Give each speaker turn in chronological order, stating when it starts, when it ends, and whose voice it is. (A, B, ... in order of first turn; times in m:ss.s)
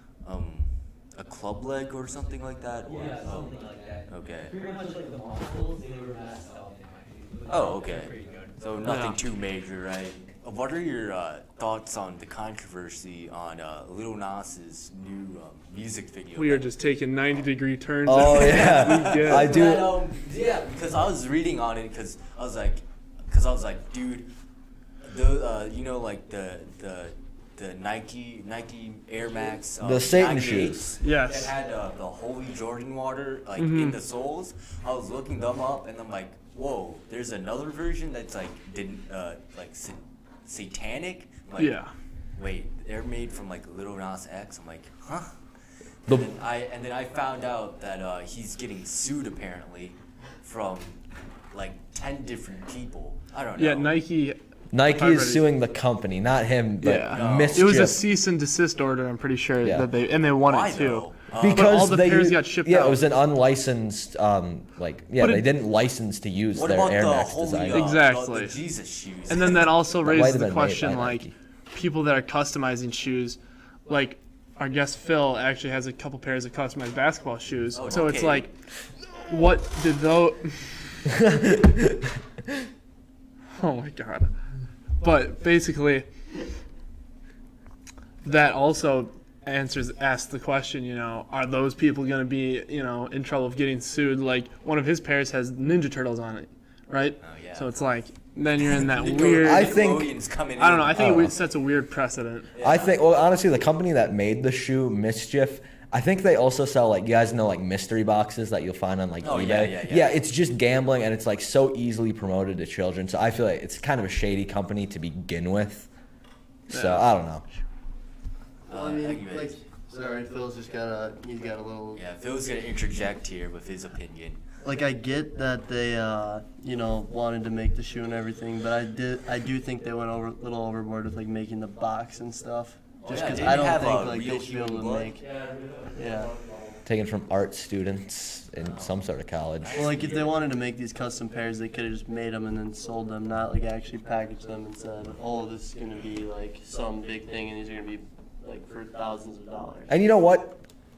0:00.2-0:04.6 A
0:02.9-0:08.6 B
0:07.5-0:16.7 A
0:08.8-0:09.2 C
0:16.3-0:19.6 C
0:18.1-0:20.0 D
0:18.2-0:24.3 A
0:25.0-0:41.8 A
0:29.8-0:30.9 D
0:31.0-0:31.5 C
0:33.6-0:34.0 C
0:41.6-0:41.9 C
0:42.3-0:45.3 A
0:46.1-0:54.0 A
0:53.6-0:55.4 C
0:54.7-0:58.0 D
0:56.8-1:03.0 C
0:57.1-0:57.9 A
0:59.6-0:59.9 D
1:00.4-1:01.7 A
1:01.3-1:07.9 D
1:05.2-1:05.4 C
1:06.5-1:09.7 A
1:07.7-1:08.6 C
1:09.3-1:18.5 C
1:10.0-1:11.3 D
1:17.8-1:18.5 A
1:19.3-1:21.1 C
1:21.1-1:22.6 D
1:23.6-1:24.3 C
1:25.0-1:26.1 C
1:28.2-1:39.8 C
1:37.2-1:37.7 A
1:38.8-1:41.3 A
1:39.4-1:40.1 D
1:40.6-1:42.5 C
1:40.9-1:41.3 D
1:42.5-1:43.0 A
1:42.6-1:55.9 D
1:49.2-1:50.2 A
1:56.7-1:57.4 D
1:56.7-1:57.1 C
1:58.7-1:59.6 A
1:58.7-2:02.0 E
2:01.9-2:04.4 A
2:04.6-2:16.7 E
2:13.0-2:15.2 A
2:16.9-2:19.9 D
2:18.6-2:19.0 A
2:19.6-2:20.5 A
2:19.7-2:29.9 E
2:29.9-2:30.6 D